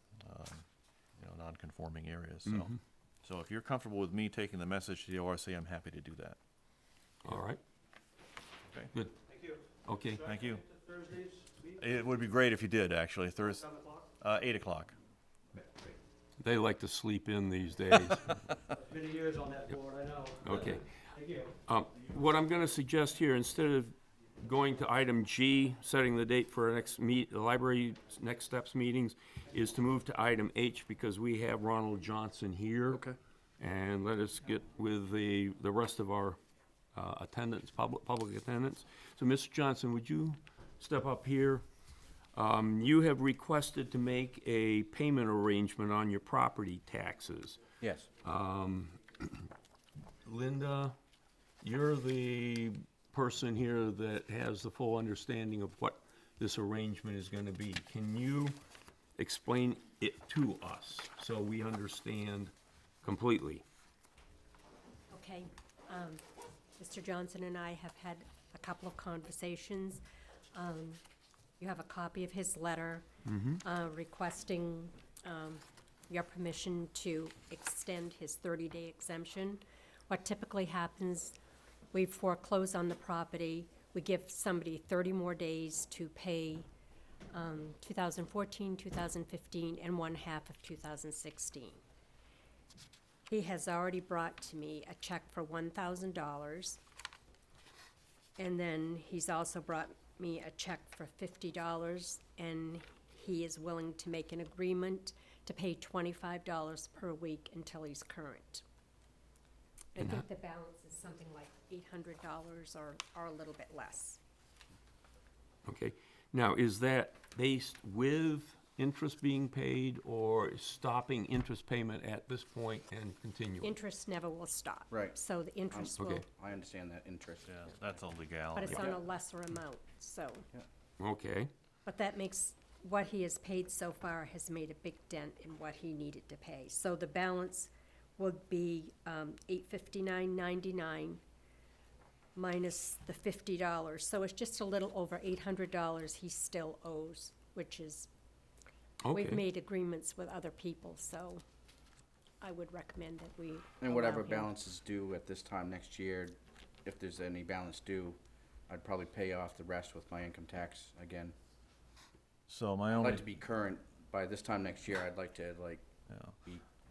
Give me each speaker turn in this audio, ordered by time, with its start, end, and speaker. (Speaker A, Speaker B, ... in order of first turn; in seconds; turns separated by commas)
Speaker A: 0.2-0.6, Speaker A: 1.2-6.4, Speaker B: 2.5-2.8, Speaker B: 7.2-7.6, Speaker C: 9.3-11.8, Speaker B: 9.8-10.2, Speaker A: 10.2-10.6, Speaker A: 11.8-14.9, Speaker C: 13.6-14.0, Speaker B: 16.4-18.4, Speaker C: 18.7-21.5, Speaker B: 20.4-20.9, Speaker B: 21.6-33.0, Speaker B: 33.6-36.4, Speaker B: 36.9-41.6, Speaker B: 42.3-47.6, Speaker D: 47.8-48.1, Speaker B: 48.2-49.5, Speaker B: 50.2-50.9, Speaker B: 51.6-58.6, Speaker B: 59.2-62.5, Speaker B: 63.0-63.6, Speaker E: 65.1-66.2, Speaker E: 66.8-70.0, Speaker E: 70.5-71.0, Speaker E: 71.6-73.0, Speaker B: 73.2-73.6, Speaker E: 73.6-81.3, Speaker E: 81.9-86.7, Speaker E: 87.3-91.8, Speaker E: 93.3-96.8, Speaker E: 98.4-108.6, Speaker E: 109.9-114.2, Speaker B: 115.7-123.7, Speaker E: 123.6-126.2, Speaker D: 124.9-125.2, Speaker D: 125.7-127.7, Speaker B: 126.0-126.2, Speaker A: 127.5-128.9, Speaker E: 128.5-130.4, Speaker B: 131.0-131.5, Speaker E: 131.8-141.2, Speaker E: 142.3-148.1, Speaker B: 149.0-149.4, Speaker E: 149.1-151.4, Speaker E: 152.4-154.5, Speaker D: 153.8-161.3, Speaker A: 162.5-163.2, Speaker D: 162.9-165.9, Speaker A: 166.1-166.4